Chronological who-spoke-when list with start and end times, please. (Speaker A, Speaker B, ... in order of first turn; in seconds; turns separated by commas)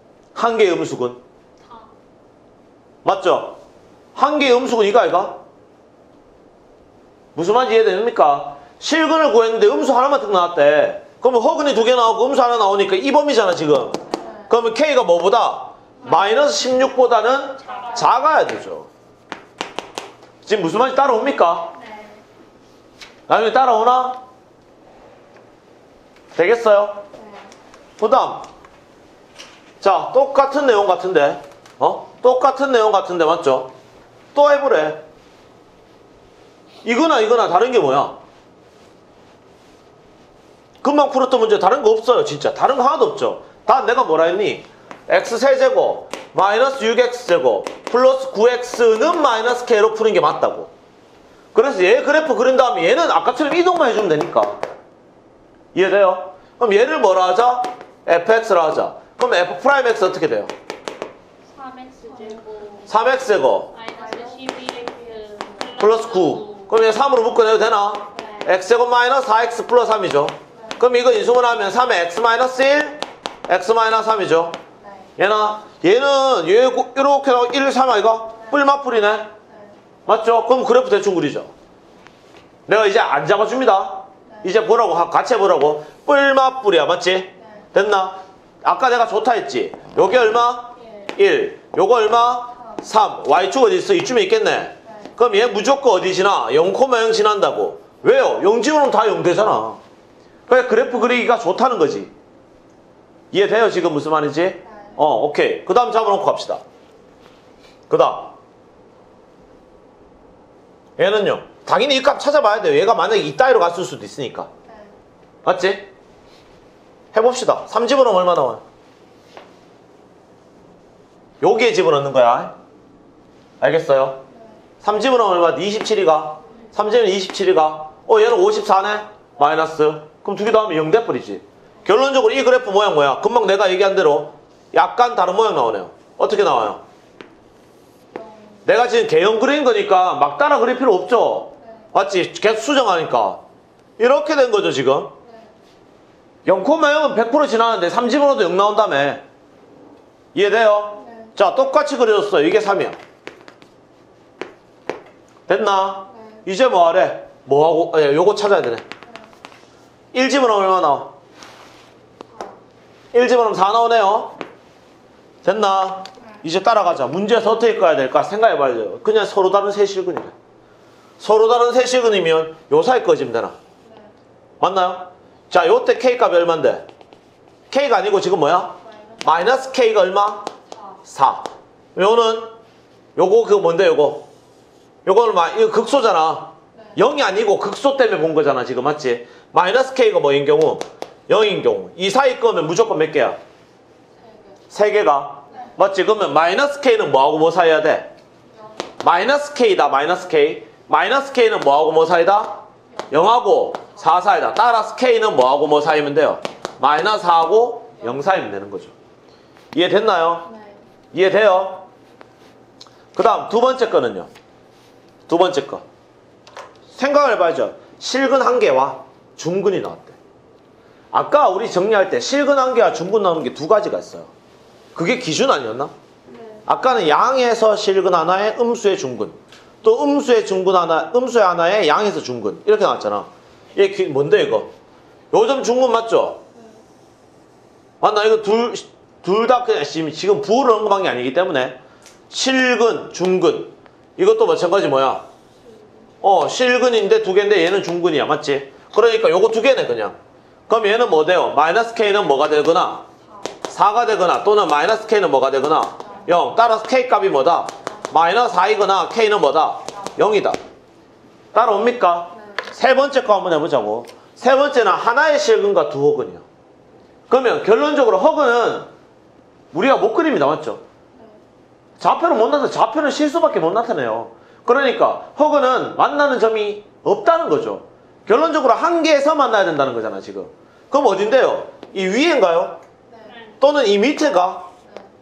Speaker A: 0.3-1.2, Speaker B: 1.6-1.9, Speaker A: 3.0-3.6, Speaker A: 4.2-5.4, Speaker A: 7.3-18.9, Speaker C: 14.1-14.5, Speaker B: 16.0-16.4, Speaker B: 17.6-18.2, Speaker A: 20.4-21.7, Speaker B: 21.8-22.2, Speaker A: 23.3-24.2, Speaker A: 26.4-27.0, Speaker C: 27.1-27.5, Speaker A: 28.0-28.5, Speaker A: 29.8-33.7, Speaker A: 34.3-35.0, Speaker A: 36.8-38.2, Speaker A: 40.8-50.7, Speaker A: 51.5-54.6, Speaker A: 55.7-60.5, Speaker B: 61.5-62.9, Speaker C: 62.1-62.4, Speaker A: 62.9-63.7, Speaker B: 63.7-66.9, Speaker C: 63.9-65.9, Speaker A: 65.8-74.6, Speaker C: 68.2-68.4, Speaker C: 70.5-70.8, Speaker C: 74.8-75.1, Speaker A: 75.2-79.3, Speaker C: 79.5-79.8, Speaker A: 80.1-81.5, Speaker A: 82.7-99.8, Speaker C: 84.3-84.5, Speaker C: 87.4-87.7, Speaker B: 90.8-91.1, Speaker C: 92.6-92.9, Speaker C: 94.8-95.2, Speaker A: 100.5-102.1, Speaker A: 103.3-106.6, Speaker C: 104.6-105.0, Speaker A: 107.9-108.3, Speaker A: 111.0-114.5, Speaker C: 114.7-115.0, Speaker A: 115.4-115.9, Speaker A: 117.1-118.6, Speaker A: 121.4-122.5, Speaker A: 123.6-124.2, Speaker C: 124.3-124.6, Speaker A: 124.8-136.8, Speaker C: 138.1-138.7, Speaker A: 138.7-143.4, Speaker A: 144.0-145.2, Speaker C: 145.2-145.5, Speaker A: 146.5-149.2, Speaker A: 150.3-153.0, Speaker C: 151.0-151.3, Speaker A: 155.5-158.8, Speaker C: 156.1-156.4, Speaker A: 160.1-161.1, Speaker A: 163.1-164.4, Speaker A: 165.4-170.3, Speaker A: 171.2-173.6, Speaker C: 173.8-174.1, Speaker A: 174.6-176.9, Speaker A: 177.7-180.5, Speaker C: 178.9-179.3, Speaker A: 181.1-182.5, Speaker A: 183.2-184.3, Speaker A: 185.1-193.4, Speaker C: 186.7-187.0, Speaker C: 194.1-194.6, Speaker A: 194.7-198.1, Speaker C: 198.5-198.8, Speaker A: 199.0-208.9, Speaker A: 209.7-210.5, Speaker C: 210.4-210.9, Speaker A: 211.1-211.9, Speaker A: 213.1-214.3, Speaker A: 215.3-215.8, Speaker A: 216.9-220.2, Speaker A: 221.1-224.3, Speaker A: 224.9-225.9, Speaker C: 226.3-226.6, Speaker A: 226.7-234.7, Speaker A: 235.3-236.4, Speaker C: 236.6-236.8, Speaker A: 238.0-241.8, Speaker A: 242.3-245.3, Speaker A: 246.2-253.1, Speaker A: 253.7-260.6, Speaker C: 256.0-256.4, Speaker A: 261.5-266.4, Speaker C: 262.4-262.7, Speaker A: 267.3-268.9, Speaker A: 269.7-270.8, Speaker C: 271.1-271.4, Speaker A: 272.0-282.8, Speaker C: 283.1-283.4, Speaker B: 283.3-283.6, Speaker A: 283.6-284.7, Speaker C: 284.8-285.1